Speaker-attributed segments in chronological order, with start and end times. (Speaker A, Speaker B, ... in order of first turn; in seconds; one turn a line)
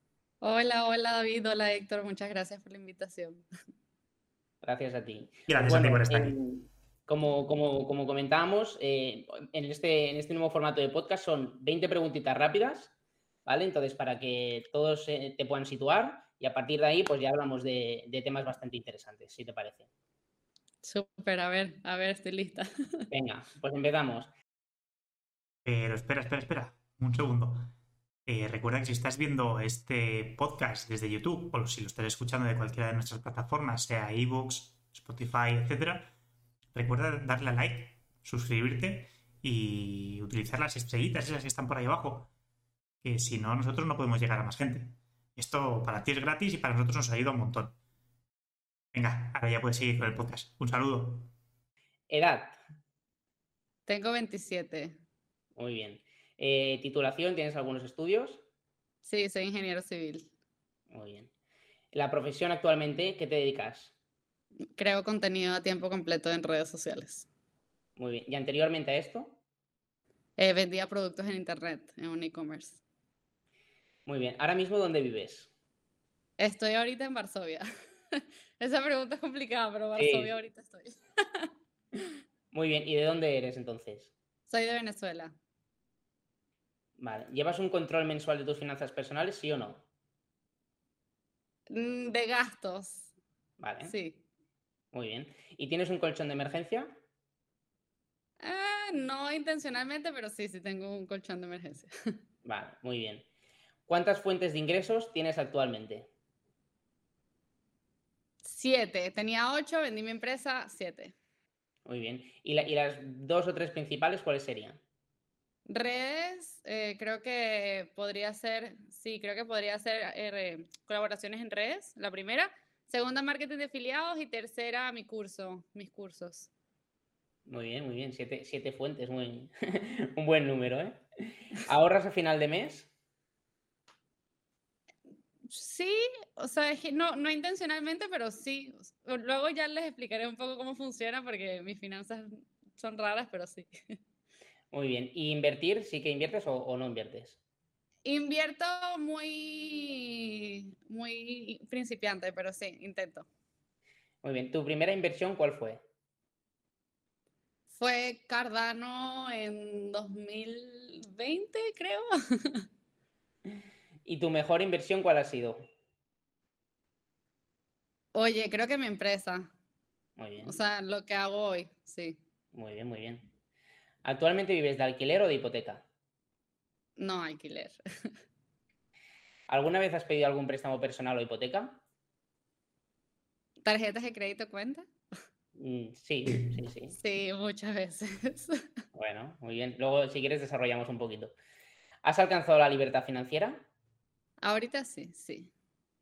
Speaker A: 0.4-3.5
Speaker B: 4.6-12.9
Speaker C: 5.5-6.3
Speaker B: 13.5-19.9
Speaker A: 20.8-23.1
Speaker B: 23.1-24.3
Speaker C: 25.7-27.7
Speaker C: 28.3-36.1
Speaker C: 36.7-42.3
Speaker C: 43.0-47.8
Speaker C: 48.9-51.3
Speaker B: 52.1-52.6
Speaker A: 53.9-55.0
Speaker B: 55.6-58.4
Speaker A: 59.0-60.3
Speaker B: 60.9-61.3
Speaker B: 61.9-63.9
Speaker A: 64.8-67.3
Speaker B: 68.0-69.4
Speaker A: 70.4-72.8
Speaker B: 74.1-75.5
Speaker A: 76.4-81.5
Speaker B: 80.0-80.3
Speaker B: 82.5-84.1
Speaker A: 84.5-85.4
Speaker B: 87.0-89.8
Speaker A: 91.7-93.1
Speaker B: 93.6-94.0
Speaker A: 93.8-94.2
Speaker B: 94.9-97.0
Speaker A: 98.4-101.9
Speaker B: 102.5-103.3
Speaker B: 103.9-106.1
Speaker A: 108.4-111.2
Speaker B: 111.9-114.8
Speaker A: 115.7-126.5
Speaker B: 127.5-132.9
Speaker A: 135.5-143.7
Speaker B: 144.7-147.4
Speaker A: 148.1-153.3
Speaker B: 154.2-155.8
Speaker A: 157.7-162.6
Speaker B: 164.1-165.7
Speaker A: 168.2-169.5
Speaker B: 170.2-170.6
Speaker A: 170.4-172.2
Speaker B: 172.5-173.3
Speaker B: 174.0-175.8
Speaker A: 177.0-178.1
Speaker B: 179.5-181.8
Speaker A: 183.6-184.9
Speaker B: 185.6-186.9
Speaker A: 187.0-188.6
Speaker B: 188.9-191.3
Speaker B: 192.0-193.7
Speaker A: 194.4-195.5